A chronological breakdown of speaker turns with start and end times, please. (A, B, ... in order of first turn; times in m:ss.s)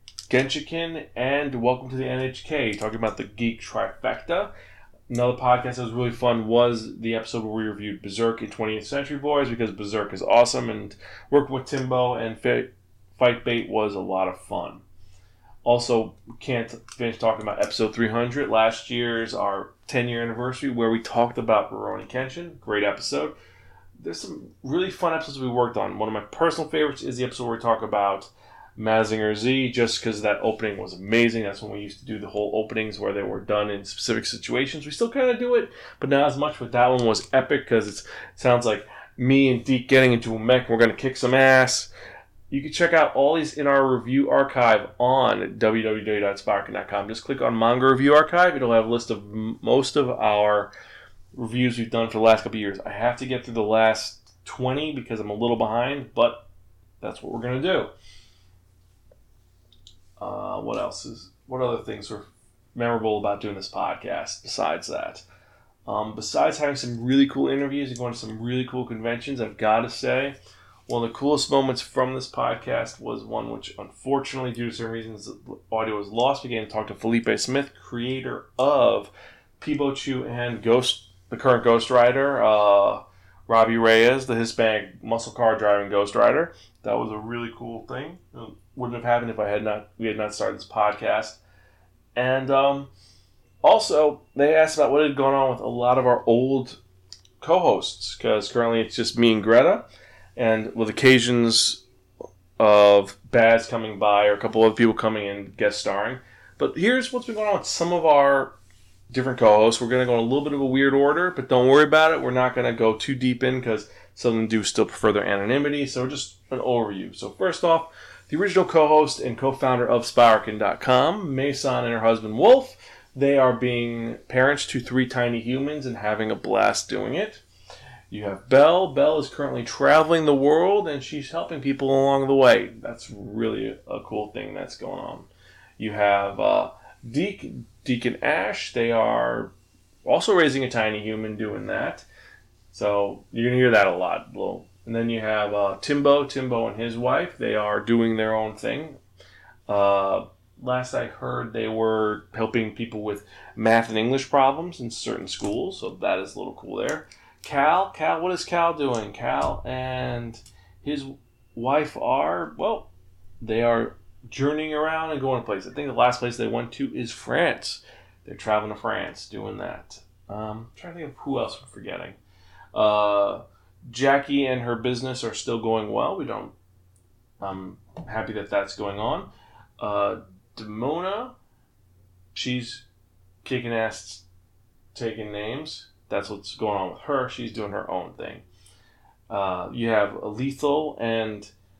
0:00.3-0:04.5 A
0:05.1-0:14.8 A
0:15.6-0:23.3 A
0:24.0-0:41.9 A
0:42.5-0:50.7 A
0:51.3-0:56.4 A
0:57.0-0:57.9 A
1:00.2-1:05.2 A
1:05.9-1:10.3 A
1:10.9-1:31.4 A
1:32.2-1:32.9 A
1:33.6-1:36.8 A
1:37.4-1:39.8 A
1:40.4-1:41.8 A
1:42.6-1:48.6 A
1:49.1-2:07.4 A
2:08.1-2:19.5 A
2:20.0-2:22.1 A
2:22.7-2:29.0 A
2:29.7-2:52.2 A
2:52.7-2:56.5 A
2:57.4-3:01.3 A
3:02.3-3:02.8 A
3:03.4-3:04.2 A
3:04.9-3:08.4 A
3:09.3-3:11.5 A